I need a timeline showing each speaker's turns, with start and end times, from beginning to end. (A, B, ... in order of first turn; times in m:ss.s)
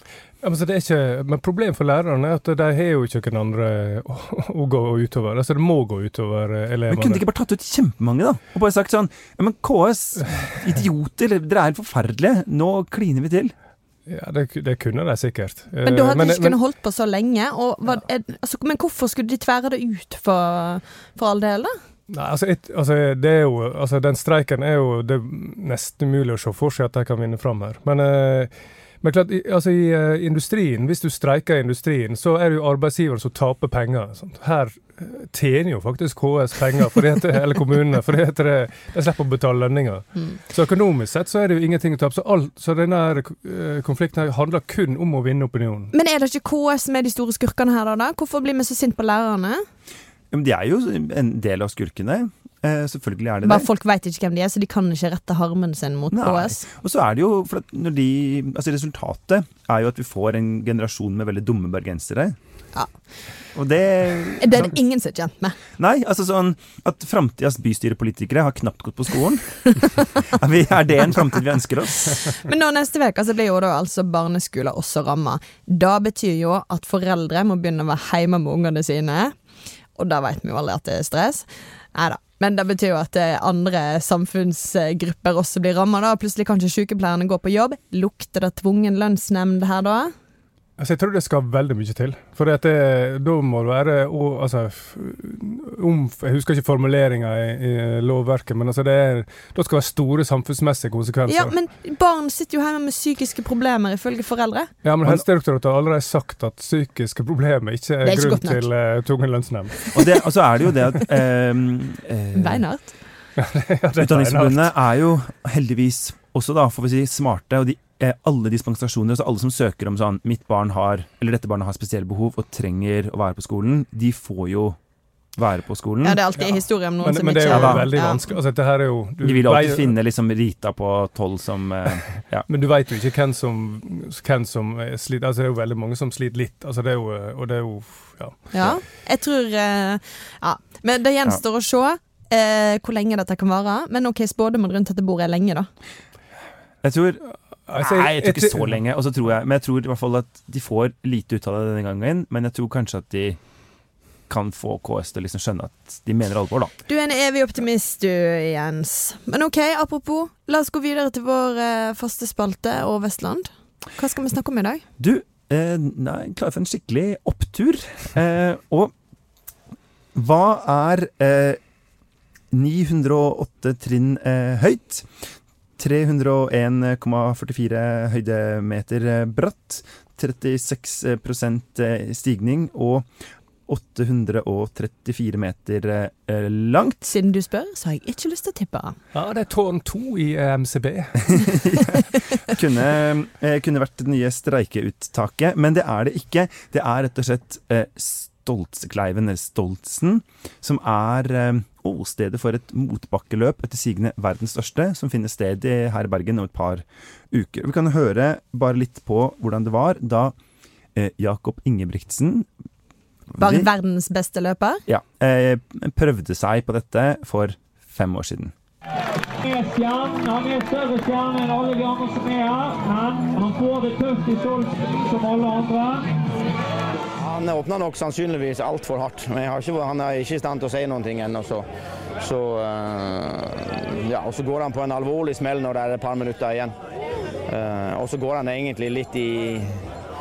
0:00.4-0:07.2 A
0:06.9-0:13.5 B
0:14.1-0:16.6 A
0:15.8-0:21.8 C
0:22.1-0:28.5 A
0:29.0-0:45.9 A
0:45.9-0:49.6 C
0:50.3-0:53.7 B
0:53.4-0:56.6 C
0:56.1-1:02.4 B
1:03.5-1:04.7 B
1:04.4-1:05.6 C
1:05.8-1:12.3 B
1:12.3-1:19.4 C
1:20.0-1:30.1 C
1:30.8-1:41.5 A
1:41.3-1:44.7 C
1:44.8-1:49.8 A
1:48.0-1:48.6 C
1:49.9-1:52.6 B
1:52.3-1:52.9 C
1:53.4-1:54.7 A
1:54.0-2:04.8 B
2:05.4-2:06.2 B
2:06.0-2:08.2 C
2:06.4-2:09.9 A
2:07.5-2:07.9 B
2:09.2-2:12.4 B
2:12.5-2:18.5 A
2:18.5-2:25.7 C
2:18.5-2:18.8 B
2:26.8-2:33.4 B
2:27.7-2:28.8 A
2:34.3-2:36.7 B
2:36.9-2:44.8 C
2:45.0-2:48.9 B
2:50.1-2:51.6 B
2:52.5-2:55.0 B
2:55.8-3:03.1 B
3:03.7-3:07.0 B
3:07.0-3:09.0 C
3:09.1-3:11.3 A
3:11.3-3:30.3 B
3:30.9-3:32.5 B
3:33.3-3:33.7 B
3:33.4-3:34.8 C
3:34.9-3:38.5 B
3:39.4-3:46.2 D
3:47.2-3:51.6 E
3:52.2-3:56.7 E
3:57.5-3:59.8 E